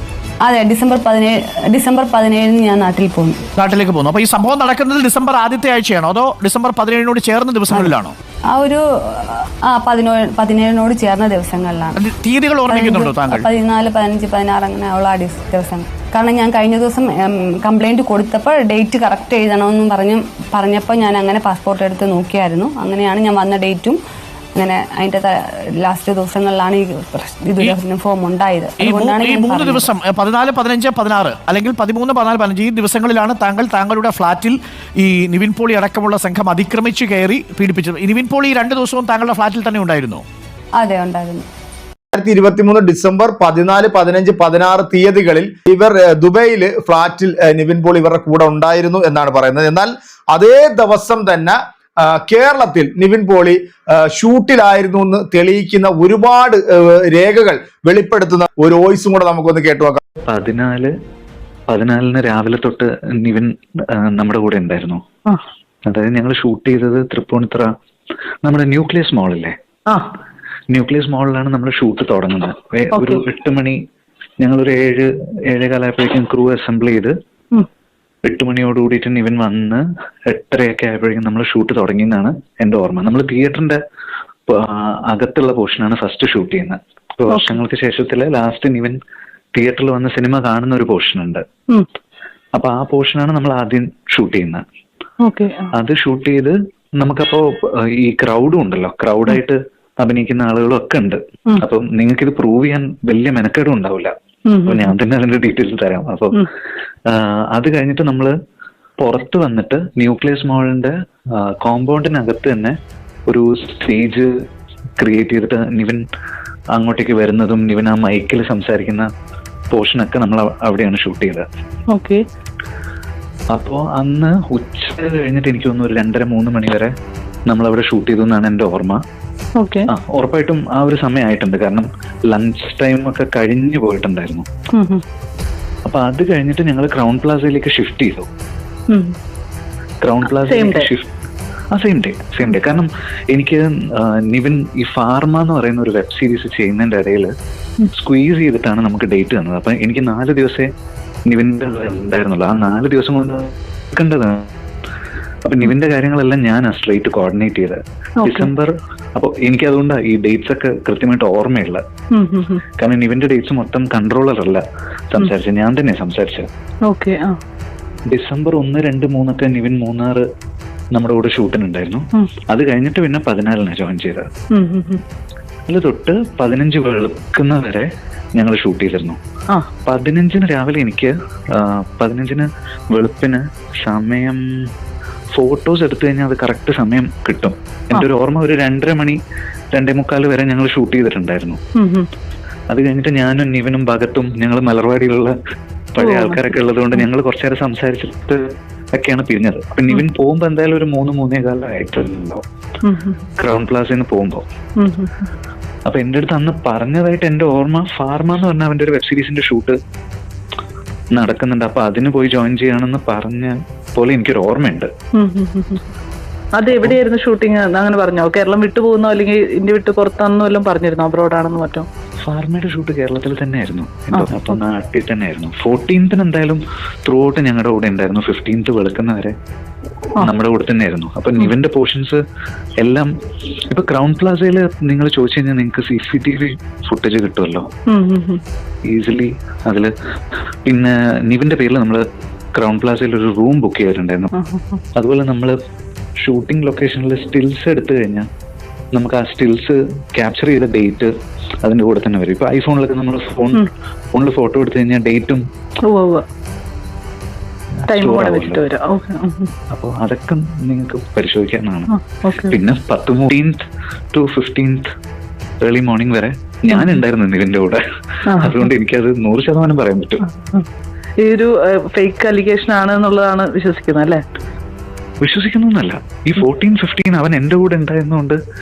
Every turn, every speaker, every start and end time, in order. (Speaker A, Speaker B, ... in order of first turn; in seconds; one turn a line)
Speaker A: 0.4-3.4
Speaker B: 3.6-8.1
Speaker A: 8.5-12.0
Speaker B: 11.9-13.4
Speaker A: 12.7-24.0
Speaker A: 24.6-29.9
Speaker B: 28.8-40.2
Speaker A: 40.8-41.5
Speaker C: 42.1-60.0
Speaker D: 60.3-60.9
Speaker D: 61.7-65.0
Speaker D: 65.9-67.7
Speaker D: 68.4-69.6
Speaker D: 70.7-73.8
Speaker E: 72.9-73.2
Speaker D: 74.4-77.2
Speaker D: 78.2-83.8
Speaker D: 84.5-89.0
Speaker E: 87.3-87.6
Speaker D: 89.5-91.4
Speaker D: 92.5-94.6
Speaker E: 95.2-95.7
Speaker D: 95.7-104.1
Speaker E: 104.5-104.9
Speaker D: 104.7-106.4
Speaker D: 107.1-108.3
Speaker D: 109.0-112.8
Speaker D: 113.3-114.3
Speaker D: 115.0-116.0
Speaker D: 116.7-119.1
Speaker D: 119.7-121.4
Speaker E: 121.9-122.2
Speaker D: 123.5-126.9
Speaker D: 127.5-129.0
Speaker E: 129.6-129.9
Speaker D: 129.9-134.5
Speaker E: 134.7-135.0
Speaker D: 135.8-138.3
Speaker E: 138.9-139.2
Speaker D: 140.0-141.1
Speaker E: 140.3-140.9
Speaker D: 141.7-147.3
Speaker D: 147.9-150.7
Speaker D: 151.3-154.5
Speaker D: 155.4-161.8
Speaker E: 158.2-158.5
Speaker E: 162.1-162.6
Speaker D: 162.8-166.5
Speaker E: 166.9-167.4
Speaker D: 168.1-170.2
Speaker D: 170.9-174.3
Speaker E: 174.5-175.0
Speaker D: 175.7-179.2
Speaker D: 179.8-184.7
Speaker D: 185.3-189.2
Speaker D: 189.7-191.6
Speaker E: 191.8-192.1
Speaker D: 192.7-195.3
Speaker D: 195.9-198.4
Speaker E: 196.0-196.5
Speaker D: 198.9-202.4
Speaker E: 202.8-203.2
Speaker D: 203.4-204.4
Speaker E: 204.8-205.2
Speaker D: 205.8-209.8
Speaker D: 211.1-214.9
Speaker E: 215.2-215.8
Speaker E: 216.6-221.9
Speaker D: 216.7-217.0
Speaker D: 222.2-229.3
Speaker E: 224.1-224.5
Speaker D: 230.2-232.2
Speaker D: 232.8-237.7
Speaker E: 237.9-238.4
Speaker D: 238.8-239.9
Speaker D: 240.7-244.3
Speaker E: 244.3-244.8
Speaker D: 244.9-245.6
Speaker D: 246.2-248.3
Speaker D: 248.9-251.1
Speaker D: 251.6-255.4
Speaker E: 255.8-256.2
Speaker D: 257.8-258.6
Speaker E: 257.9-259.5
Speaker D: 259.7-261.9
Speaker E: 261.9-262.6
Speaker D: 262.5-264.9
Speaker D: 265.6-267.8
Speaker E: 266.7-267.0
Speaker E: 268.3-268.6
Speaker D: 268.3-270.2
Speaker E: 270.3-270.6
Speaker E: 271.2-274.2
Speaker D: 275.2-278.4